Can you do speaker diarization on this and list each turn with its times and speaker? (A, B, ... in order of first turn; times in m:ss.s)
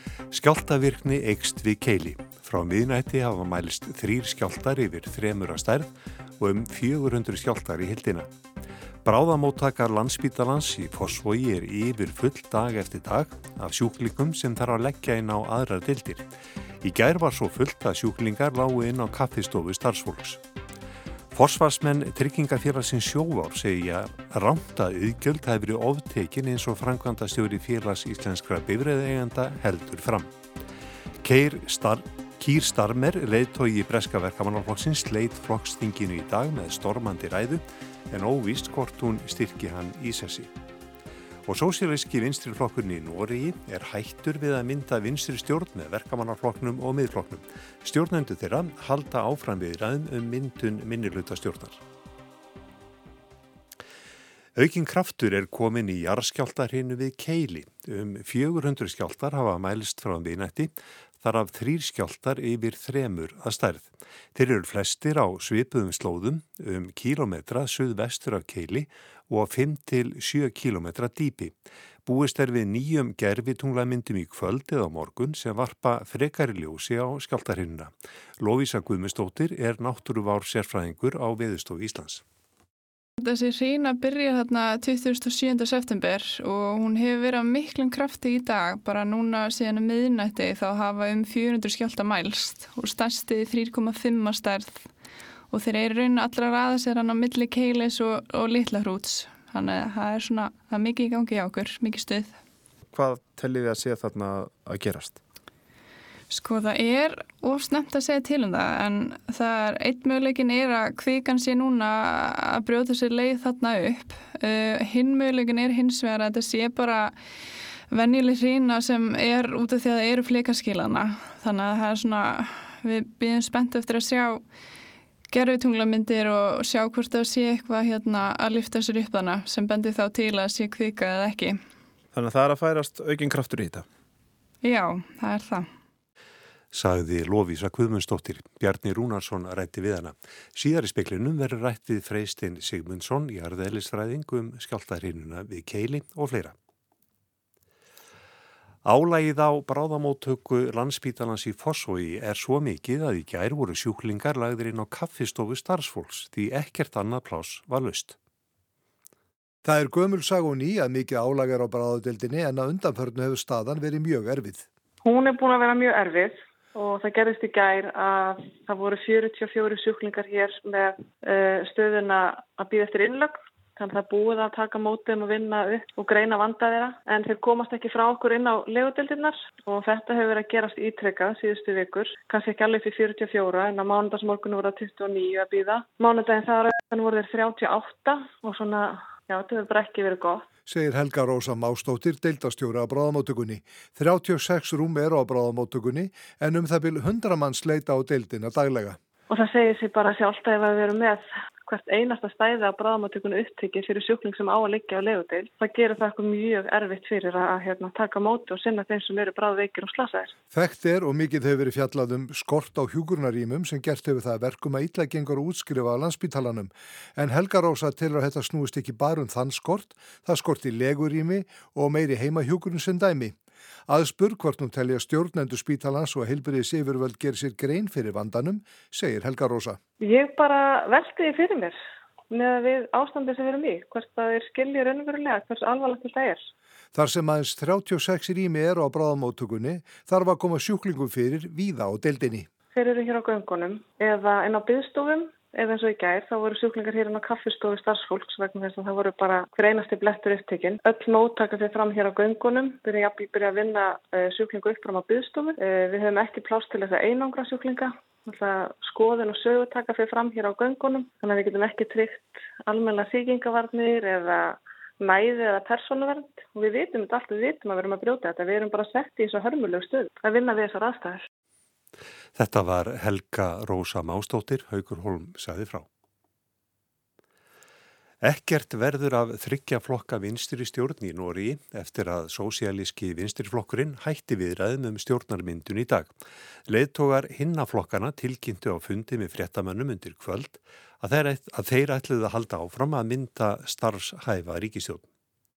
0:00.3-0:08.3 A
0:09.0-0:16.3 A
0:16.8-0:20.4 A
0:21.3-0:30.3 A
0:31.2-0:40.5 A
0:41.5-0:51.8 A
0:54.6-1:11.5 A
1:12.1-1:22.2 A
1:23.2-1:34.9 B
1:35.5-1:42.4 B
1:42.9-1:45.2 C
1:46.3-1:57.2 B
1:57.9-2:04.4 B
2:05.3-2:11.6 B
2:12.1-2:13.8 C
2:14.6-2:15.7 B
2:16.7-2:26.5 A
2:28.8-2:38.2 A
2:39.6-2:44.7 D
2:45.0-3:10.5 E
3:10.7-3:19.0 D
3:19.3-3:30.3 E
3:30.5-3:43.4 D
3:43.9-3:49.8 D
3:50.0-3:51.8 E
3:52.3-3:56.4 E
3:56.9-4:02.5 D
4:02.8-4:31.2 E
4:32.4-4:35.9 A
4:38.2-4:46.1 A
4:46.7-4:55.1 A